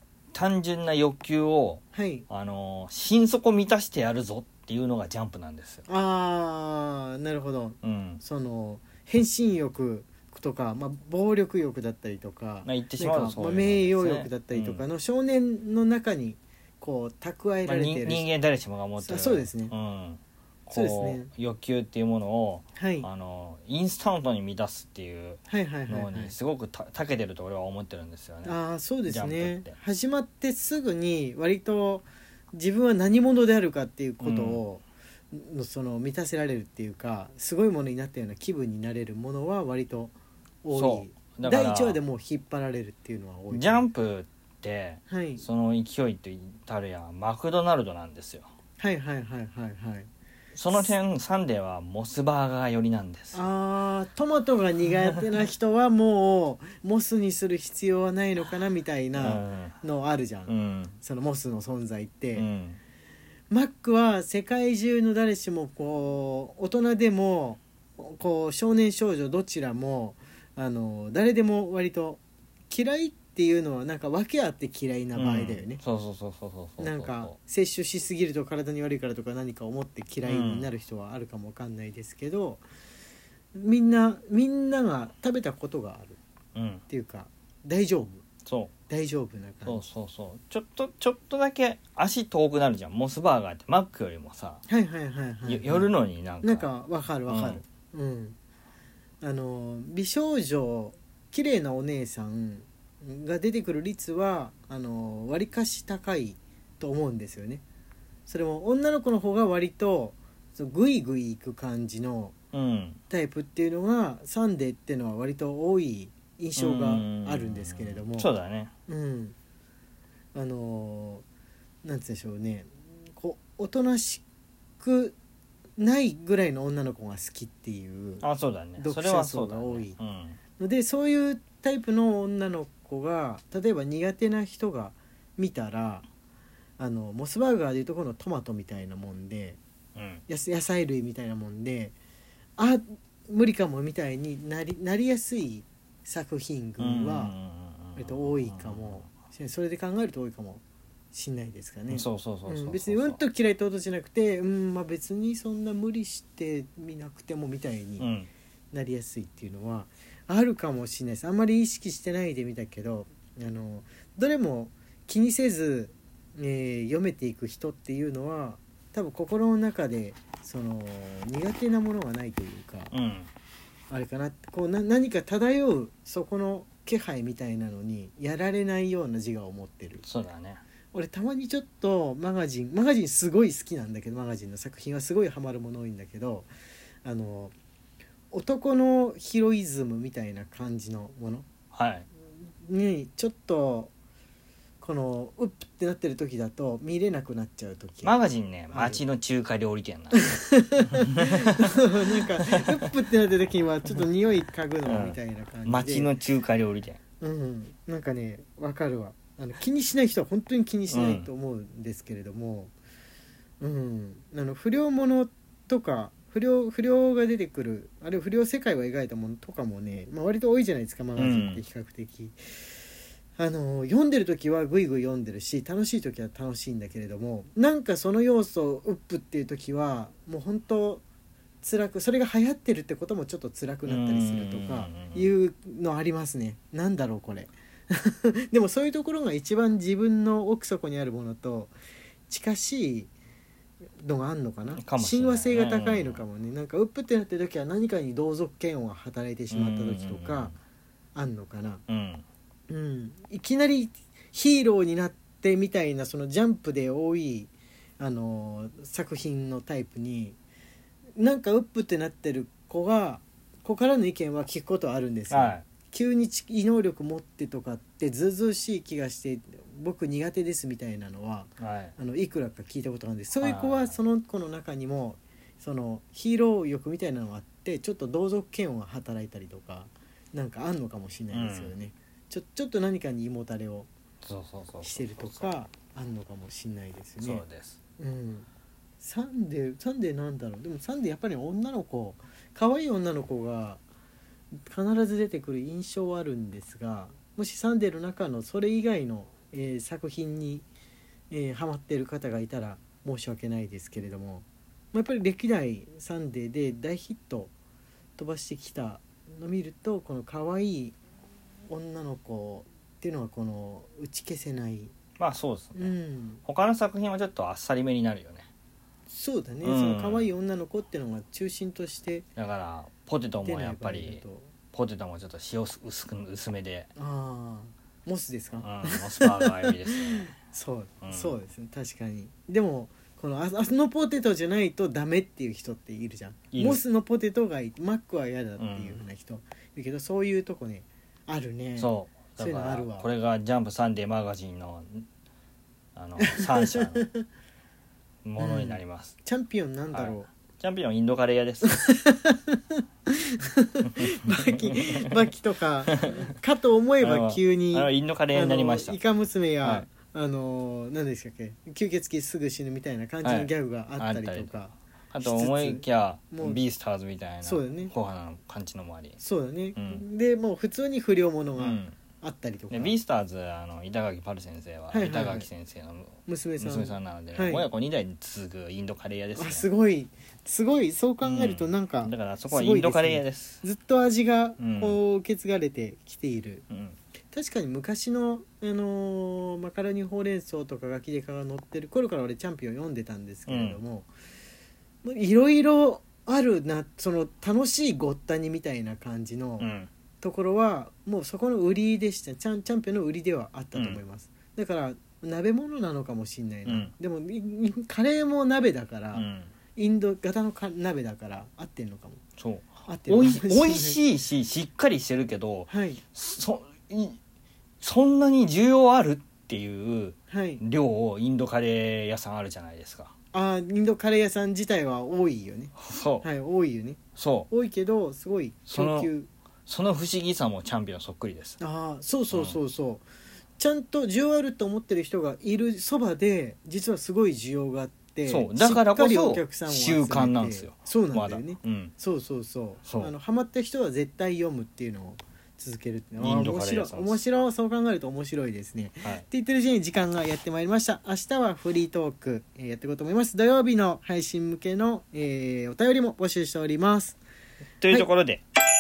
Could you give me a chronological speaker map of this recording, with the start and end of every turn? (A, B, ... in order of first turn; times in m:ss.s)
0:00.3-0:05.8 A
0:01.9-0:02.3 B
0:05.9-0:18.3 B
0:07.8-0:08.2 A
0:12.6-0:14.8 A
0:17.7-0:28.6 A
0:19.0-0:19.7 B
0:20.7-0:21.3 B
0:22.8-0:23.1 B
0:25.5-0:26.3 B
0:28.4-0:43.9 B
0:29.1-0:29.8 A
0:34.2-0:34.6 A
0:40.7-0:42.0 A
0:43.5-0:48.5 A
0:45.1-0:45.4 B
0:48.8-0:50.1 B
0:50.6-0:53.4 A
0:53.3-1:02.4 B
0:59.2-0:59.8 A
1:00.5-1:01.0 A
1:02.4-1:02.8 A
1:03.5-1:15.8 B
1:15.2-1:17.4 A
1:16.8-1:22.6 B
1:20.2-1:20.7 A
1:23.5-1:26.2 B
1:26.6-1:26.8 A
1:26.9-1:28.2 B
1:28.5-1:28.7 A
1:28.9-1:29.8 B
1:29.6-1:34.6 A
1:34.7-1:35.9 B
1:35.5-1:36.7 A
1:36.4-1:38.4 B
1:37.3-1:37.6 A
1:39.2-1:47.6 B
1:48.3-1:52.3 B
1:52.5-1:53.0 A
1:53.1-1:58.3 B
1:56.6-1:58.7 A
1:58.9-1:59.4 B
2:00.3-2:01.2 B
2:01.8-2:04.2 B
2:04.8-2:05.2 B
2:05.8-2:10.0 B
2:08.2-2:10.4 A
2:10.6-2:16.0 B
2:16.8-2:19.6 B
2:20.0-2:20.2 A
2:20.3-2:22.0 B
2:22.6-2:27.3 B
2:26.8-2:29.1 A
2:28.0-2:38.1 B
2:31.9-2:33.2 A
2:38.0-2:38.3 A
2:38.7-2:52.9 B
2:52.9-2:53.3 A
2:53.9-3:00.0 B
3:00.0-3:00.6 A
3:00.9-3:06.5 B
3:07.0-3:07.6 B
3:08.3-3:11.5 B
3:11.7-3:12.1 A
3:12.6-3:13.9 B
3:14.8-3:18.2 B
3:18.0-3:20.4 A
3:18.7-3:19.0 B
3:20.2-3:26.1 B
3:21.0-3:21.6 A
3:24.8-3:27.0 A
3:27.2-3:32.7 B
3:30.9-3:31.3 A
3:33.6-3:42.4 B
3:41.2-3:41.6 A
3:43.4-3:51.0 B
3:51.6-4:01.8 B
3:53.8-3:55.3 A
4:02.3-4:03.1 B
4:04.0-4:10.5 B
4:04.8-4:06.2 A
4:09.5-4:10.6 A
4:11.2-4:11.8 B
4:11.9-4:12.2 A
4:12.7-4:20.4 B
4:21.2-4:43.9 B
4:25.3-4:25.6 A
4:31.6-4:32.0 A
4:33.4-4:34.0 A
4:41.3-4:41.8 A
4:44.2-4:45.5 A
4:44.8-4:47.4 B
4:47.2-4:47.8 A
4:48.0-4:48.5 B
4:49.0-4:53.8 B
4:54.6-5:00.7 B
5:01.3-5:07.5 B
5:08.2-5:11.0 B
5:11.7-5:14.9 B
5:15.2-5:15.9 A
5:15.8-5:16.4 B
5:16.5-5:18.5 A
5:19.1-5:22.3 B
5:19.6-5:20.3 A
5:22.4-5:26.9 A
5:23.4-5:24.5 B
5:27.0-5:43.1 B
5:28.6-5:30.3 A
5:31.0-5:31.4 A
5:36.5-5:36.8 A
5:38.6-5:39.0 A
5:41.8-5:45.1 A
5:46.0-5:47.1 A
5:46.2-5:47.3 B
5:48.2-5:49.2 A
5:48.4-5:50.3 B
5:49.9-5:51.8 A
5:51.6-6:06.6 B
5:54.0-5:55.0 A
5:55.9-5:56.2 A
5:57.0-5:59.0 A
5:59.6-5:59.9 A
6:03.2-6:04.5 A
6:05.1-6:09.2 A
6:07.4-6:07.9 B
6:09.2-6:13.0 B
6:09.8-6:10.0 A
6:11.6-6:12.0 A
6:12.7-6:19.7 A
6:14.9-6:15.5 B
6:16.3-6:17.7 B
6:19.4-6:26.6 B
6:21.2-6:23.6 A
6:24.6-6:25.0 A
6:26.7-6:27.0 A
6:27.3-6:34.1 B
6:33.5-6:33.8 A
6:35.0-6:39.7 B
6:39.6-6:39.9 A
6:40.2-6:52.2 B
6:43.7-6:44.0 A
6:46.7-6:46.9 A
6:49.1-6:49.5 A
6:52.4-6:57.2 A
6:52.9-6:54.0 B
6:55.7-6:56.0 B
6:57.8-7:03.1 A
7:00.3-7:00.6 B
7:03.3-7:09.3 B
7:05.8-7:06.3 A
7:07.2-7:07.5 A
7:08.7-7:09.1 A
7:09.7-7:11.6 A
7:11.6-7:13.1 B
7:12.3-7:12.6 A
7:13.6-7:37.2 B
7:18.3-7:21.9 A
7:22.8-7:23.1 A
7:26.2-7:27.2 A
7:37.8-7:38.4 A